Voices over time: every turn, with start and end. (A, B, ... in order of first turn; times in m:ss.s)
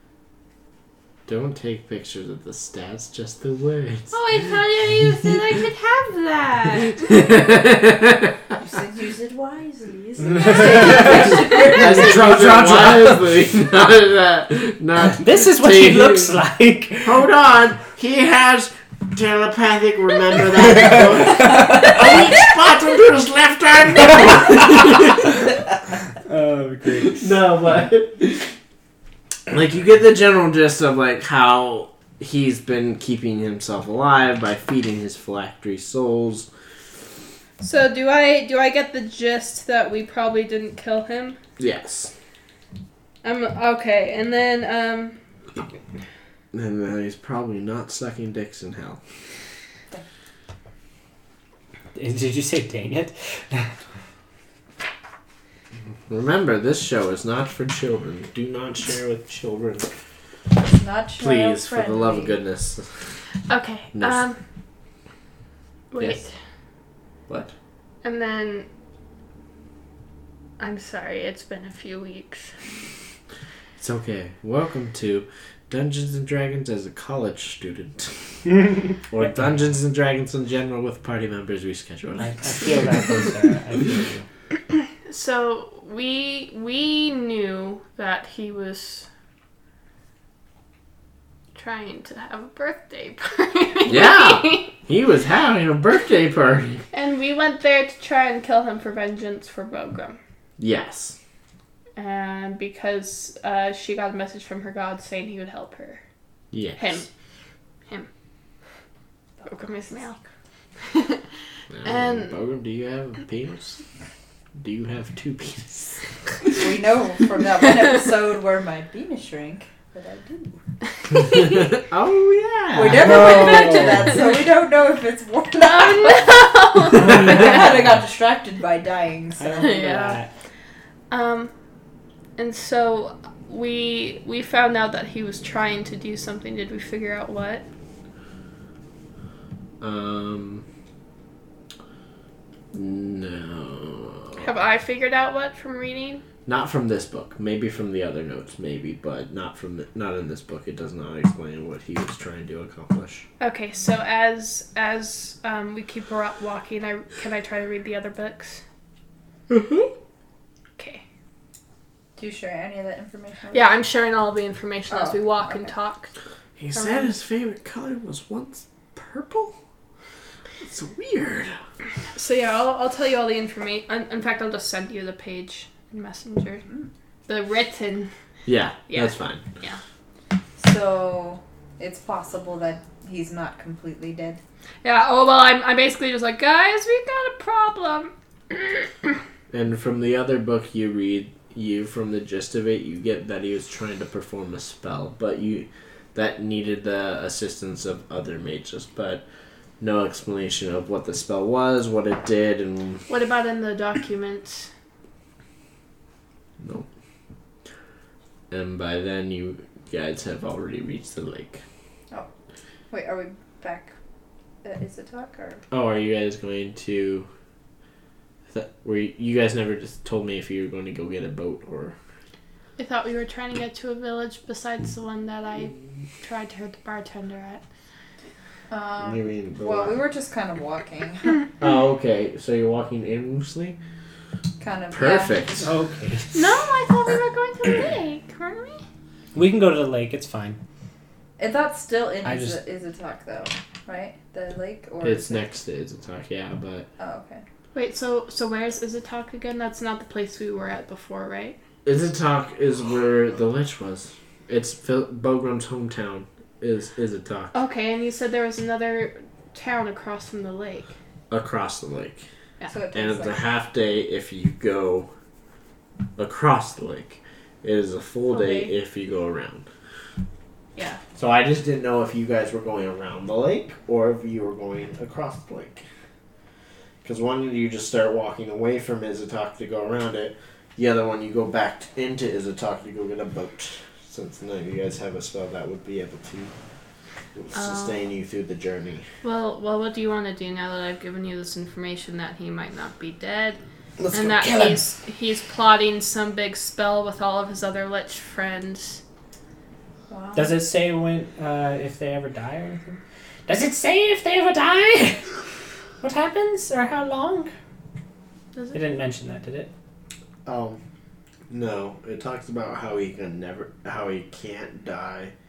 0:01.3-0:04.2 A
0:04.1-0:07.4 B
0:07.0-0:08.4 A
0:08.6-0:12.2 C
0:10.3-0:13.4 D
0:10.4-0:11.3 B
0:10.6-0:16.3 A
0:15.1-0:17.2 D
0:17.0-0:25.3 A
0:20.9-0:22.1 D
0:24.2-0:25.5 D
0:26.2-0:27.3 D
0:27.1-0:28.5 A
0:29.5-0:36.5 A
0:37.6-0:41.4 B
0:41.6-0:42.1 A
0:43.2-0:45.2 B
0:46.5-0:49.0 A
0:51.9-0:53.7 D
0:56.1-0:59.9 A
1:00.8-1:02.4 C
1:01.2-1:03.2 A
1:03.5-1:04.4 B
1:03.9-1:04.2 A
1:05.9-1:06.3 B
1:07.3-1:07.5 A
1:08.0-1:08.7 B
1:10.6-1:12.6 B
1:13.8-1:18.2 A
1:18.6-1:19.3 D
1:19.1-1:23.2 A
1:22.2-1:24.2 D
1:25.0-1:29.1 B
1:31.5-1:34.7 B
1:33.9-1:36.8 A
1:36.9-1:40.2 B
1:40.6-1:41.2 A
1:42.0-1:46.0 B
1:46.5-1:46.8 A
1:46.8-1:47.1 B
1:49.4-1:50.2 C
1:49.4-1:50.2 B
1:50.8-1:51.2 B
1:51.7-1:53.8 A
1:51.8-1:52.4 B
1:54.6-1:56.0 A
1:56.6-2:00.6 C
2:01.1-2:01.7 B
2:01.2-2:03.5 A
2:02.7-2:09.7 C
2:03.0-2:04.1 D
2:05.6-2:07.5 B
2:06.9-2:07.8 D
2:09.4-2:10.3 D
2:09.6-2:10.2 B
2:11.1-2:11.5 B
2:12.4-2:17.6 B
2:19.8-2:20.6 A
2:22.7-2:24.5 A
2:24.4-2:26.2 B
2:26.4-2:33.2 A
2:33.4-2:38.6 B
2:39.5-2:39.9 A
2:40.8-2:41.0 B
2:42.2-2:43.7 C
2:43.5-2:46.1 B
2:44.9-2:45.7 C
2:46.6-2:49.6 A
2:46.7-2:47.1 B
2:50.6-2:51.6 A
2:52.1-2:56.6 B
2:57.3-2:58.1 B
2:58.4-2:59.4 A
2:58.9-2:59.8 B
3:00.6-3:04.4 C
3:04.8-3:09.1 B
3:09.5-3:19.2 A
3:19.8-3:23.0 A
3:23.1-3:24.7 B
3:26.6-3:26.9 A
3:28.5-3:31.6 A
3:32.9-3:33.9 C
3:34.6-3:35.6 C
3:35.7-3:37.3 A
3:38.5-3:41.9 A
3:42.8-3:47.6 B
3:48.7-3:51.4 C
3:49.0-3:50.0 A
3:51.6-3:53.8 A
3:54.6-3:55.6 C
3:54.9-3:55.7 A
3:55.6-3:56.4 D
3:56.3-3:58.8 B
3:59.3-4:00.6 D
4:01.4-4:05.5 C
4:02.2-4:02.6 D
4:05.0-4:06.9 A
4:07.0-4:07.4 C
4:07.7-4:11.6 B
4:11.8-4:17.5 A
4:17.5-4:20.9 B
4:21.3-4:22.2 A
4:22.7-4:23.4 C
4:22.9-4:25.1 A
4:26.2-4:29.6 A
4:28.4-4:28.7 C
4:30.8-4:31.0 B
4:31.1-4:35.8 A
4:37.0-4:46.5 A
4:47.4-4:49.1 A
4:47.5-4:48.0 B
4:49.2-4:53.6 B
4:54.0-4:54.9 D
4:54.1-4:59.0 B
5:00.1-5:00.6 C
5:00.4-5:05.3 D
5:06.0-5:07.5 D
5:08.5-5:08.8 B
5:08.7-5:09.7 D
5:10.4-5:10.8 A
5:11.5-5:15.3 A